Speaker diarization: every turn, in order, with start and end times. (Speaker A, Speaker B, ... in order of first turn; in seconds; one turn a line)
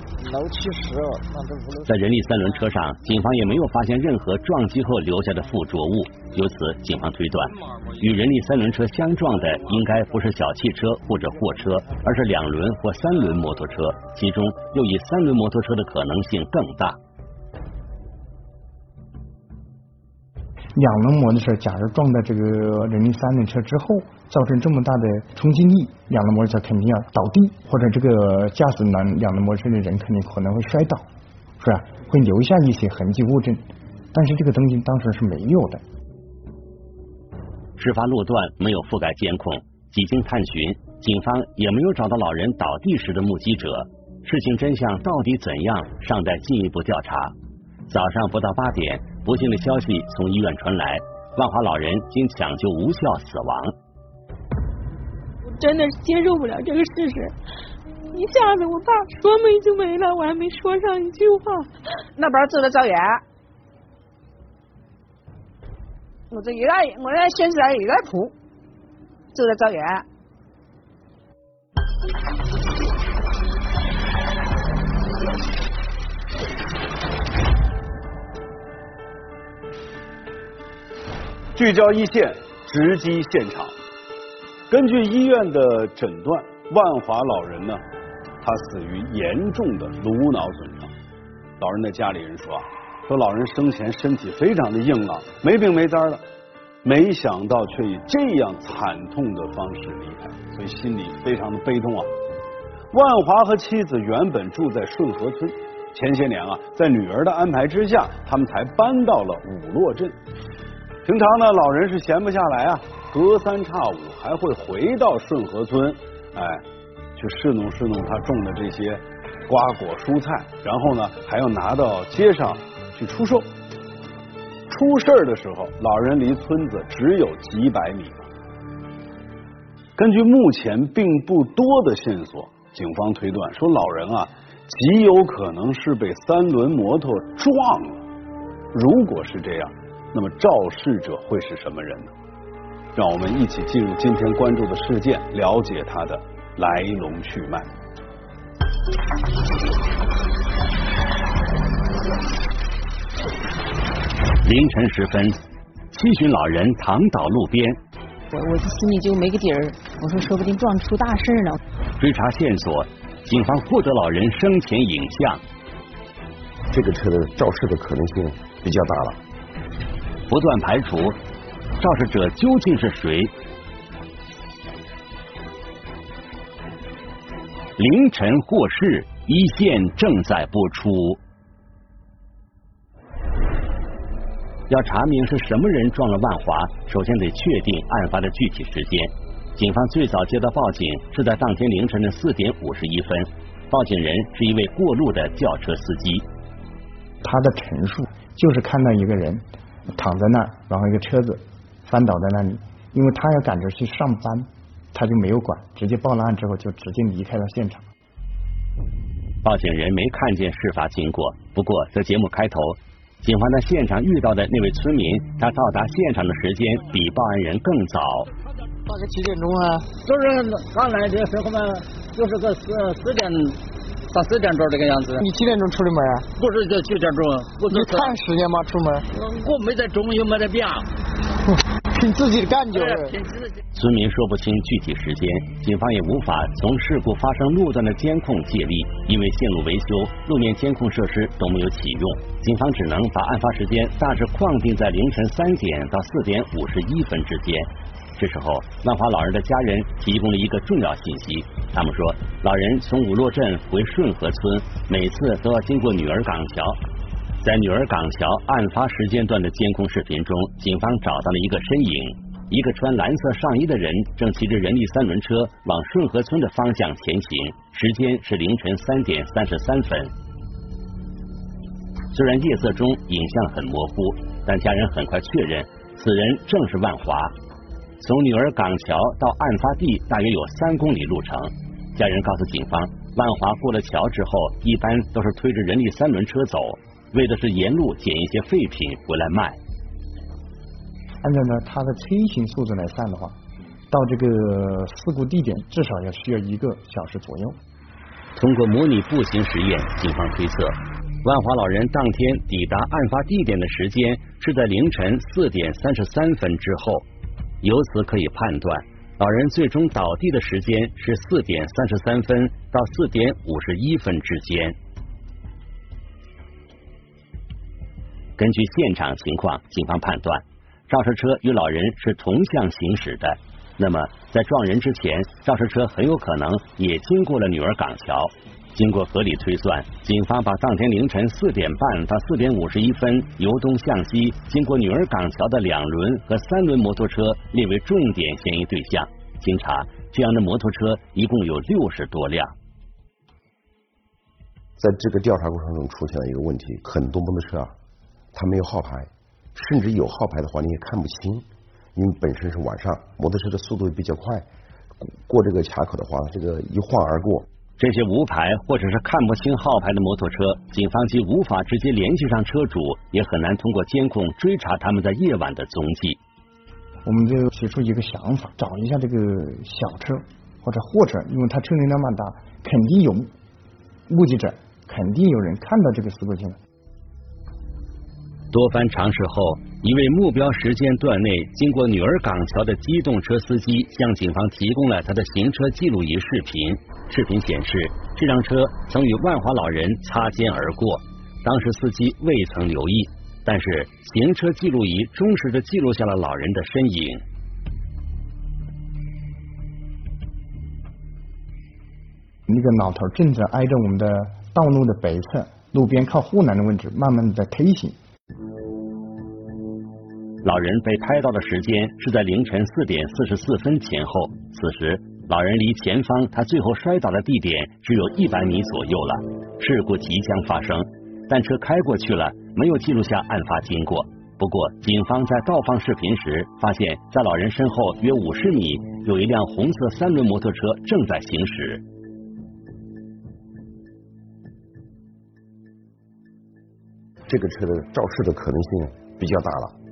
Speaker A: 0.2-1.8
Speaker B: 1.9-17.0
Speaker C: 20.8-31.1
Speaker C: 31.6-35.8
Speaker B: 37.8-47.3
Speaker B: 47.9-53.7
Speaker D: 58.2-58.8
Speaker D: 62.2-63.2
Speaker D: 66.3-68.3
Speaker D: 69.3-70.0
Speaker E: 81.5-83.8
Speaker E: 84.7-87.8
Speaker E: 88.4-90.9
Speaker E: 91.6-96.2
Speaker E: 96.8-102.1
Speaker E: 102.9-110.2
Speaker E: 111.0-116.6
Speaker E: 117.2-123.5
Speaker E: 124.7-128.3
Speaker E: 130.0-138.1
Speaker E: 138.7-142.1
Speaker E: 142.9-147.7
Speaker B: 154.4-155.4
Speaker B: 155.9-157.8
Speaker F: 158.3-161.6
Speaker B: 162.0-165.4
Speaker G: 166.7-169.2
Speaker B: 170.3-171.2
Speaker B: 171.8-173.3
Speaker B: 177.8-181.2
Speaker B: 184.7-196.2
Speaker C: 197.2-207.8
Speaker B: 209.4-218.3
Speaker A: 218.9-219.9
Speaker H: 220.0-225.2
Speaker A: 225.2-226.3
Speaker H: 226.4-228.2
Speaker A: 227.7-229.1
Speaker H: 229.2-230.9
Speaker A: 231.9-233.2
Speaker B: 233.7-256.8
Speaker B: 257.4-270.1
Speaker B: 272.1-277.3
Speaker B: 278.0-289.6
Speaker C: 291.2-293.4
Speaker C: 293.9-297.6
Speaker B: 298.4-307.1
Speaker B: 307.6-314.8
Speaker B: 318.4-342.5
Speaker G: 344.8-347.7
Speaker G: 348.3-354.4
Speaker G: 355.0-357.5
Speaker B: 357.8-366.2
Speaker C: 367.1-373.3
Speaker C: 374.1-376.6
Speaker B: 378.5-397.2
Speaker C: 402.5-408.0
Speaker B: 410.4-431.8
Speaker G: 437.3-439.7